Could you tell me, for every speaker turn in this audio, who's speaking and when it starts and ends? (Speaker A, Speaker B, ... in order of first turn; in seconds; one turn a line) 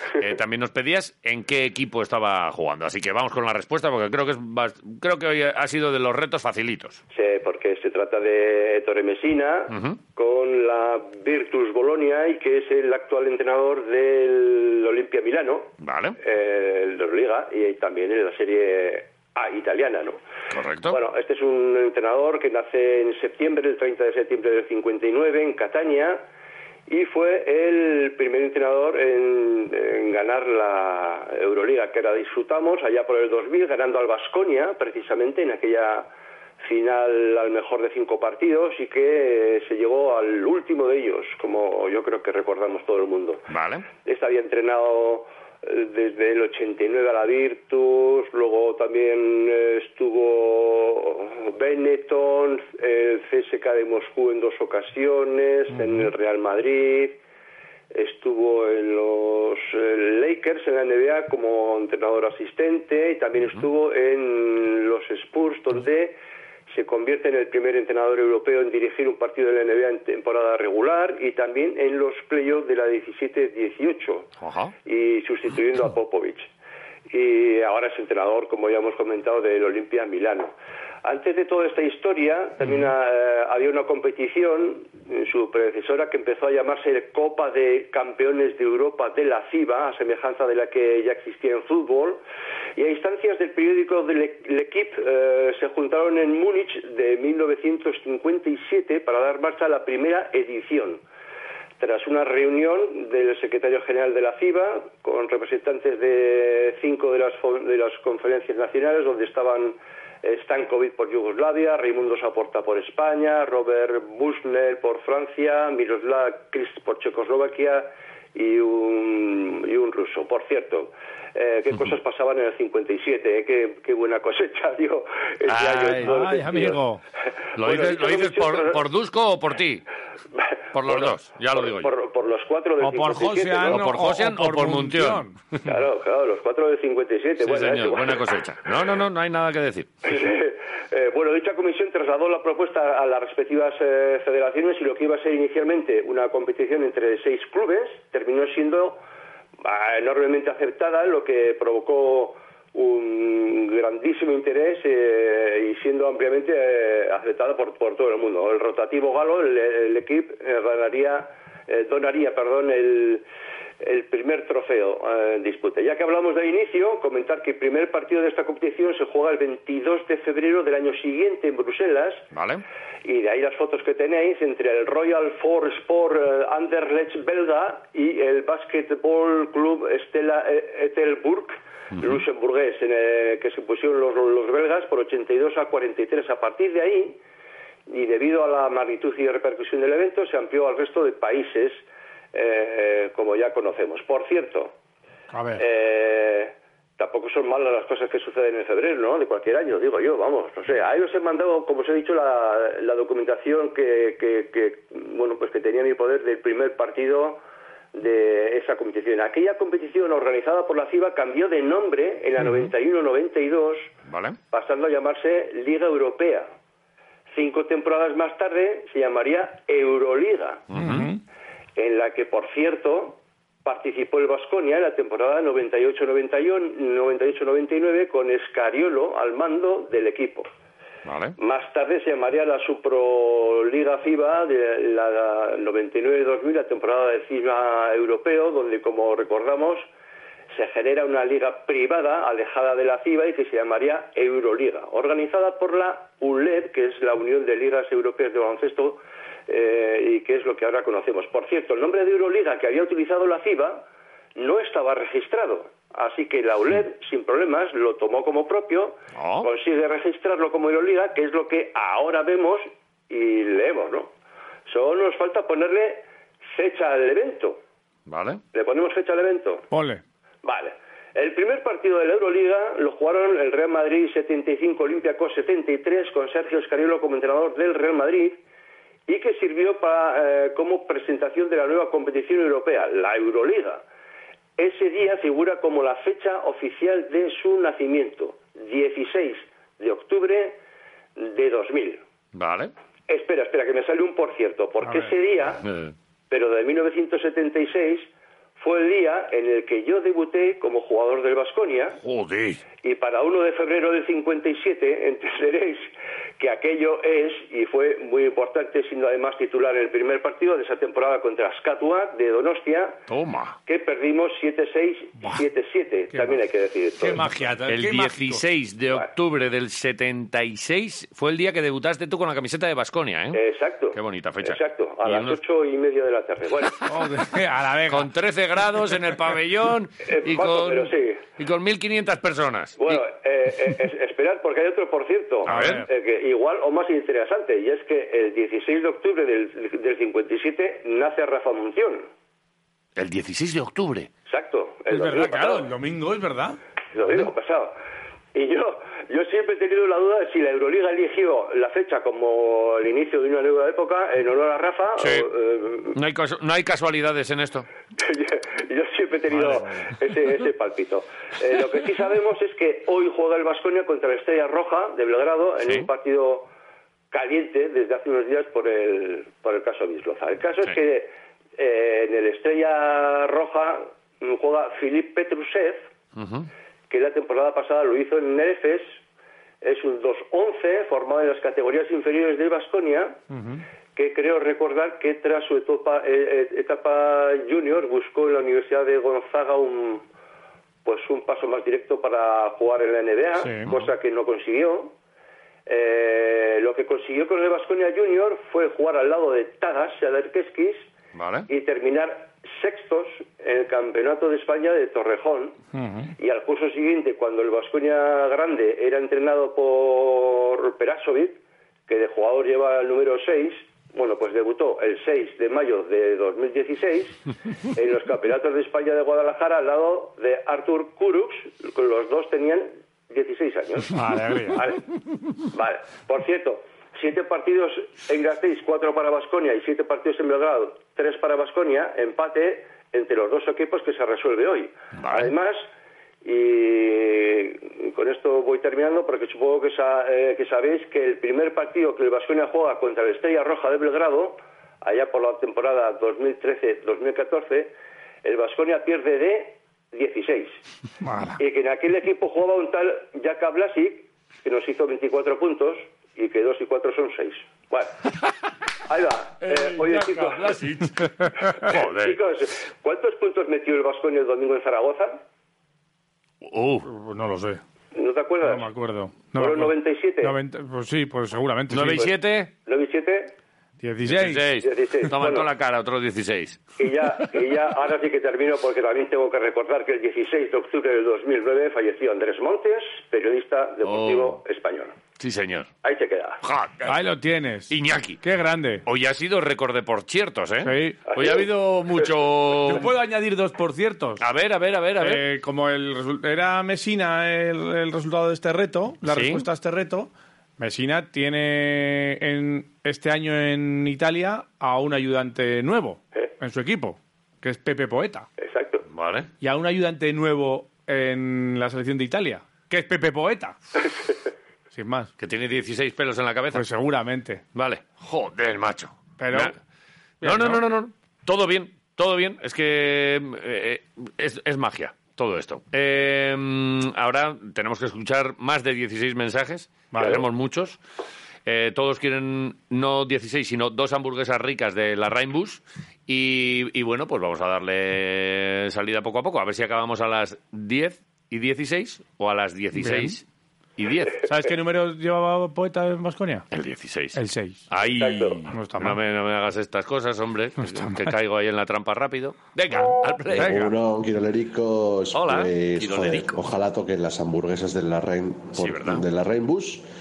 Speaker A: 0.2-7.0
Speaker B: 7.1-15.7
Speaker A: 9.7-10.0
Speaker A: 15.8-16.2
Speaker B: 16.2-20.2
Speaker A: 20.5-21.0
Speaker B: 20.9-26.2
Speaker B: 26.9-36.1
Speaker B: 36.6-43.4
Speaker A: 43.5-43.9
Speaker B: 44.0-57.2
Speaker C: 55.7-56.1
Speaker B: 57.9-66.2
Speaker B: 66.7-74.3
Speaker A: 74.4-74.7
Speaker B: 74.8-76.5
Speaker B: 77.1-80.5
Speaker B: 81.0-92.2
Speaker B: 92.8-101.0
Speaker B: 101.8-126.8
Speaker A: 125.5-126.1
Speaker C: 125.9-127.0
Speaker A: 127.6-129.8
Speaker B: 127.6-128.8
Speaker B: 130.4-133.8
Speaker A: 130.7-131.9
Speaker C: 132.8-135.3
Speaker A: 133.7-135.7
Speaker B: 135.7-138.2
Speaker A: 137.4-139.9
Speaker B: 140.1-149.0
Speaker B: 149.6-163.2
Speaker B: 163.8-172.2
Speaker A: 172.3-172.6
Speaker B: 173.0-187.2
Speaker A: 181.9-182.2
Speaker B: 187.9-194.7
Speaker C: 195.3-195.6
Speaker B: 195.6-207.4
Speaker B: 207.9-213.9
Speaker A: 214.1-214.4
Speaker B: 214.5-216.5
Speaker B: 217.3-220.6
Speaker A: 220.7-221.1
Speaker C: 220.7-221.2
Speaker B: 221.8-230.5
Speaker A: 231.1-231.3
Speaker B: 231.4-239.8
Speaker B: 240.5-253.8
Speaker B: 254.3-264.1
Speaker A: 259.1-259.5
Speaker B: 264.7-266.0
Speaker B: 266.5-267.6
Speaker A: 268.1-268.4
Speaker B: 268.5-269.6
Speaker C: 269.7-270.0
Speaker B: 270.4-278.4
Speaker B: 279.1-283.8
Speaker B: 284.6-290.6
Speaker B: 291.2-292.0
Speaker A: 292.3-292.7
Speaker B: 293.1-295.6
Speaker C: 294.8-295.1
Speaker A: 295.6-295.9
Speaker B: 296.3-302.0
Speaker A: 302.0-302.6
Speaker B: 302.8-313.0
Speaker A: 313.1-313.6
Speaker B: 313.6-317.2
Speaker C: 316.1-316.4
Speaker C: 317.0-318.4
Speaker A: 317.7-323.4
Speaker B: 323.3-326.8
Speaker A: 323.9-325.4
Speaker C: 326.9-328.1
Speaker A: 327.9-333.0
Speaker B: 330.1-331.2
Speaker B: 332.8-342.1
Speaker C: 335.5-335.9
Speaker A: 335.5-335.8
Speaker A: 342.9-344.1
Speaker B: 344.3-345.7
Speaker C: 344.9-346.6
Speaker B: 346.9-347.7
Speaker B: 348.3-355.9
Speaker A: 355.0-355.3
Speaker A: 355.9-357.7
Speaker B: 358.0-366.5
Speaker B: 367.1-375.9
Speaker A: 376.1-376.5
Speaker B: 376.9-379.0
Speaker B: 379.6-383.2
Speaker C: 383.3-383.6
Speaker B: 383.9-390.0
Speaker B: 390.8-394.9
Speaker C: 393.4-393.7
Speaker B: 395.7-400.9
Speaker A: 401.1-401.5
Speaker B: 401.5-405.6
Speaker C: 405.7-406.1
Speaker B: 406.2-411.4
Speaker B: 411.9-417.2
Speaker B: 417.7-423.9
Speaker C: 423.9-424.6
Speaker B: 424.5-424.8
Speaker B: 425.5-435.7
Speaker A: 435.0-435.3
Speaker B: 436.2-447.7
Speaker B: 448.2-450.6
Speaker C: 451.0-451.4
Speaker B: 451.4-457.9
Speaker B: 458.9-460.6
Speaker A: 459.4-462.2
Speaker C: 461.2-461.5
Speaker B: 461.7-465.2
Speaker A: 466.4-466.9
Speaker C: 466.8-467.6
Speaker B: 467.9-468.7
Speaker C: 468.4-472.1
Speaker B: 469.3-470.3
Speaker A: 471.7-472.5
Speaker B: 472.6-473.3
Speaker C: 473.8-474.5
Speaker A: 474.1-476.6
Speaker B: 474.6-475.5
Speaker B: 476.8-484.9
Speaker A: 483.8-484.4
Speaker A: 485.2-485.7
Speaker B: 485.8-486.4
Speaker A: 486.4-486.9
Speaker C: 486.8-488.8
Speaker A: 487.7-488.2
Speaker A: 488.8-492.9
Speaker C: 490.6-491.0
Speaker B: 491.1-491.5
Speaker C: 492.7-494.2
Speaker A: 494.2-495.2
Speaker C: 495.0-508.3
Speaker A: 499.1-499.4
Speaker B: 508.4-508.8
Speaker A: 508.9-509.3
Speaker C: 509.4-513.5
Speaker C: 514.7-515.1
Speaker A: 515.2-516.6
Speaker C: 516.5-517.4
Speaker A: 517.5-519.5
Speaker C: 519.2-519.5
Speaker C: 520.2-520.6
Speaker A: 520.2-530.8
Speaker C: 529.9-530.2
Speaker A: 531.5-543.2
Speaker C: 542.7-543.2
Speaker A: 543.8-544.2
Speaker C: 544.2-546.4
Speaker A: 546.5-547.2
Speaker C: 547.1-547.6
Speaker A: 547.7-553.7
Speaker B: 547.8-548.4
Speaker C: 548.5-549.0
Speaker C: 550.6-551.1
Speaker D: 553.3-559.8
Speaker C: 553.4-553.7
Speaker A: 555.1-556.4
Speaker A: 558.5-559.0